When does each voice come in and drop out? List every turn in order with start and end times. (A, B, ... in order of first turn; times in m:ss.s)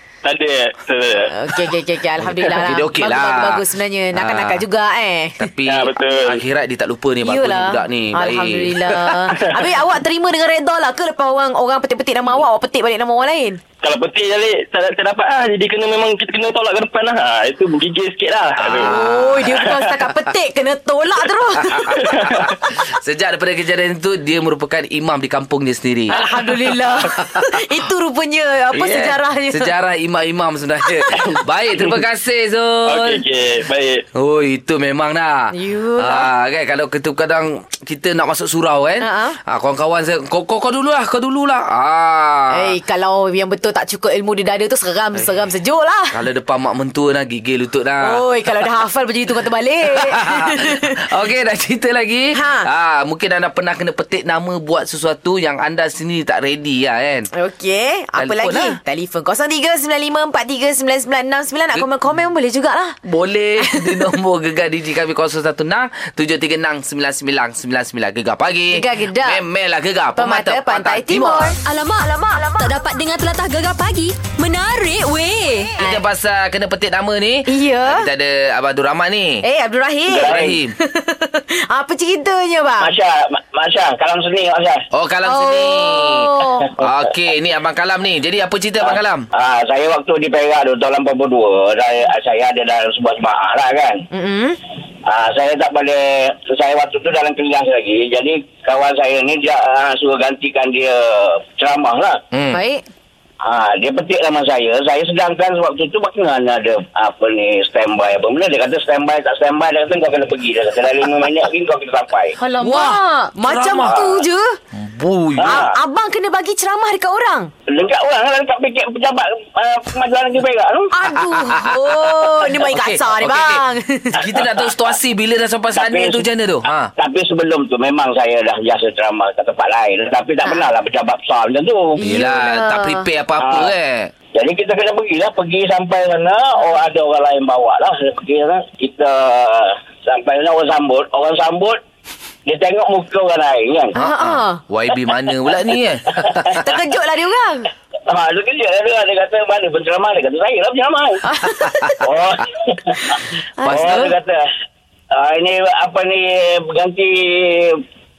0:00.2-0:01.3 A
0:01.3-0:05.4 B
0:02.2-0:04.6 C
0:05.4-0:09.3 C
0:05.6-0:06.4 A
0:07.2-0:13.6 B
0:13.8-0:18.9 A
0:18.6-0:19.6 C
0:18.8-0:22.0 B
0:21.7-0:27.5 C
0:21.9-0:22.5 A
0:26.1-0:29.7 B
0:28.7-0:33.2 C
0:31.1-0:32.0 A
0:32.8-0:34.0 A
0:34.1-0:42.7 C
0:35.5-0:36.3 B
0:39.0-0:39.4 B
0:42.5-0:46.2 B
0:46.1-0:48.6 C
0:48.0-0:51.0 B
0:50.0-0:57.3 C
0:52.3-0:52.7 B
0:57.3-1:03.0 B
0:58.2-0:58.8 C
1:03.0-1:11.5 C
1:03.6-1:04.2 B
1:08.7-1:09.4 B
1:10.2-1:11.6 B
1:11.6-1:15.7 D
1:15.8-1:19.4 C
1:17.5-1:18.1 B
1:19.4-1:22.9 B
1:20.1-1:20.6 E
1:20.2-1:20.7 C
1:22.8-1:24.8 E
1:24.9-1:29.3 C
1:25.2-1:26.7 B
1:28.8-1:34.0 E
1:34.1-1:34.6 B
1:35.0-1:42.2 E
1:42.3-1:42.6 C
1:42.5-1:42.8 B
1:43.4-1:52.4 E
1:52.4-1:54.6 B
1:52.6-1:54.0 C
1:53.8-1:54.1 E
1:54.7-1:55.5 C
1:55.4-1:55.7 E
1:55.4-1:57.5 B
1:57.7-2:00.9 E
2:00.9-2:04.2 B
2:01.1-2:02.0 C
2:02.6-2:03.6 C
2:04.2-2:06.9 C
2:05.7-2:06.2 E
2:07.0-2:12.0 E
2:12.0-2:13.1 B
2:12.0-2:14.1 C
2:13.4-2:13.7 E
2:14.3-2:21.8 E
2:22.4-2:23.9 E
2:24.0-2:24.6 B
2:24.0-2:26.6 C
2:26.2-2:26.6 E
2:26.6-2:27.7 B
2:28.1-2:31.2 E
2:31.2-2:32.0 B
2:32.0-2:33.2 E
2:33.6-2:34.0 B
2:33.7-2:34.1 C
2:33.7-2:34.5 E
2:35.1-2:37.8 E